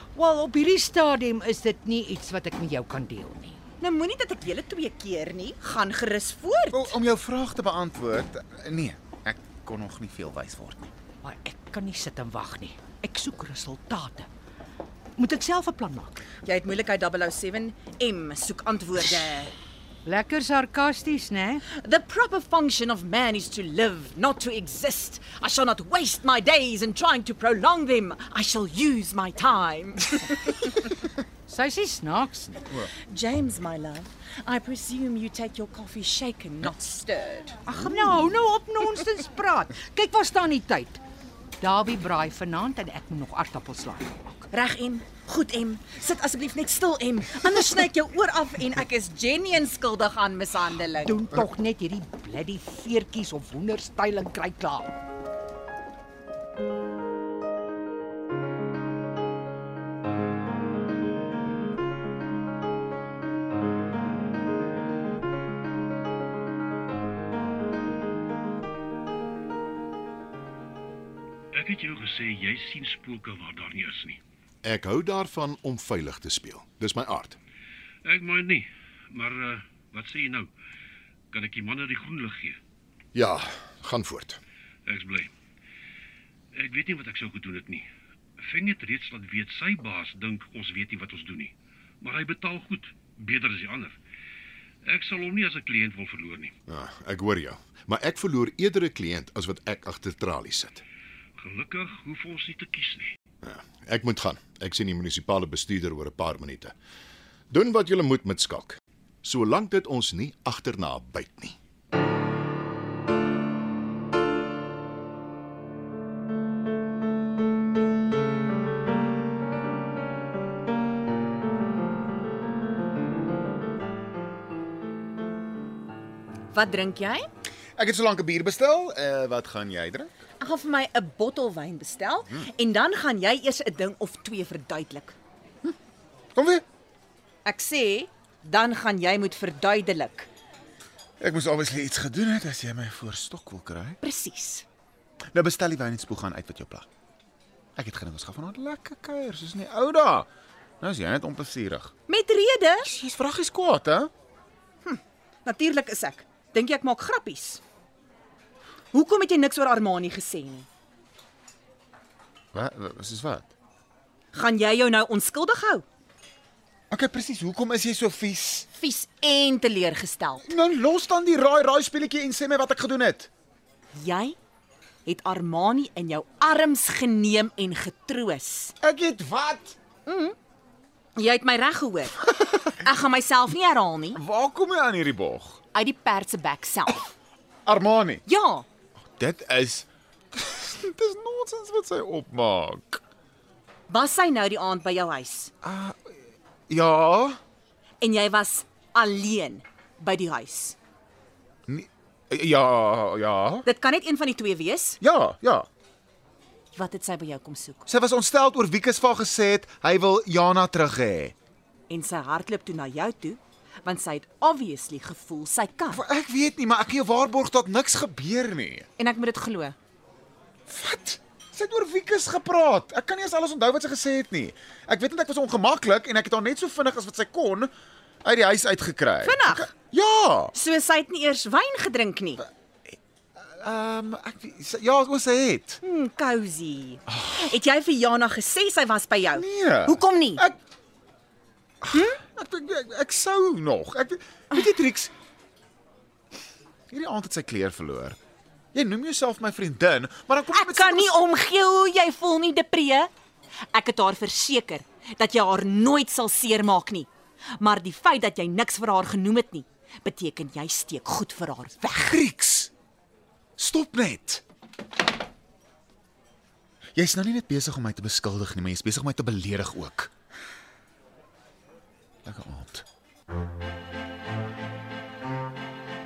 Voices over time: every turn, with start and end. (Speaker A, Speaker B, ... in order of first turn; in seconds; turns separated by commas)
Speaker A: 0.1-3.6, Speaker B: 3.8-6.9, Speaker C: 6.7-10.9, Speaker A: 11.2-14.3, Speaker A: 15.2-16.2, Speaker B: 16.4-19.5, Speaker A: 20.0-21.6, Speaker B: 21.7-30.7, Speaker A: 31.5-32.6, Speaker B: 33.1-37.6, Speaker A: 37.6-41.0, Speaker A: 41.6-44.4, Speaker B: 44.5-51.3, Speaker A: 51.0-54.9, Speaker D: 71.5-74.2, Speaker E: 74.6-77.4, Speaker D: 78.0-80.5, Speaker D: 81.3-82.6, Speaker E: 83.1-84.4, Speaker D: 84.8-85.3, Speaker D: 86.5-87.9, Speaker D: 88.4-94.0, Speaker D: 94.8-96.5, Speaker E: 96.7-100.8, Speaker D: 101.4-103.1, Speaker E: 103.4-106.7, Speaker E: 107.5-111.5, Speaker B: 126.5-127.2, Speaker C: 127.8-130.1, Speaker B: 130.4-135.1, Speaker C: 136.3-136.6, Speaker B: 137.4-140.3, Speaker C: 141.2-144.0, Speaker B: 144.0-144.6, Speaker C: 145.3-146.9, Speaker C: 147.8-150.3, Speaker C: 150.8-151.9, Speaker B: 152.1-152.9, Speaker C: 152.8-154.1, Speaker B: 154.8-157.6, Speaker B: 158.9-160.7, Speaker C: 162.5-163.5, Speaker B: 164.3-165.8, Speaker C: 166.9-168.7, Speaker B: 168.7-170.4, Speaker C: 170.4-173.3, Speaker B: 173.9-174.3, Speaker B: 175.0-178.7, Speaker C: 178.8-179.8, Speaker B: 180.1-180.3, Speaker B: 181.2-184.2, Speaker C: 184.2-185.6, Speaker B: 185.7-187.1, Speaker C: 187.7-188.2, Speaker B: 188.3-188.7, Speaker C: 189.2-193.0, Speaker B: 193.9-195.5, Speaker C: 195.6-196.2, Speaker C: 196.7-197.4, Speaker B: 198.0-200.8, Speaker C: 201.7-203.6, Speaker B: 203.6-205.0, Speaker C: 205.0-205.7, Speaker B: 206.7-207.8, Speaker C: 207.9-211.3, Speaker B: 211.9-216.0, Speaker C: 215.9-218.9, Speaker B: 219.0-219.8, Speaker C: 220.7-230.5, Speaker B: 229.2-229.7, Speaker B: 230.5-232.4, Speaker C: 233.4-235.8, Speaker B: 235.8-240.4, Speaker C: 237.1-237.4, Speaker C: 239.3-240.6, Speaker C: 241.8-245.1, Speaker B: 241.9-242.2, Speaker C: 246.9-248.2, Speaker C: 248.7-251.1, Speaker B: 250.5-253.1, Speaker B: 253.7-262.1, Speaker C: 261.9-262.7, Speaker C: 263.6-264.4, Speaker C: 266.9-270.1, Speaker C: 272.2-272.8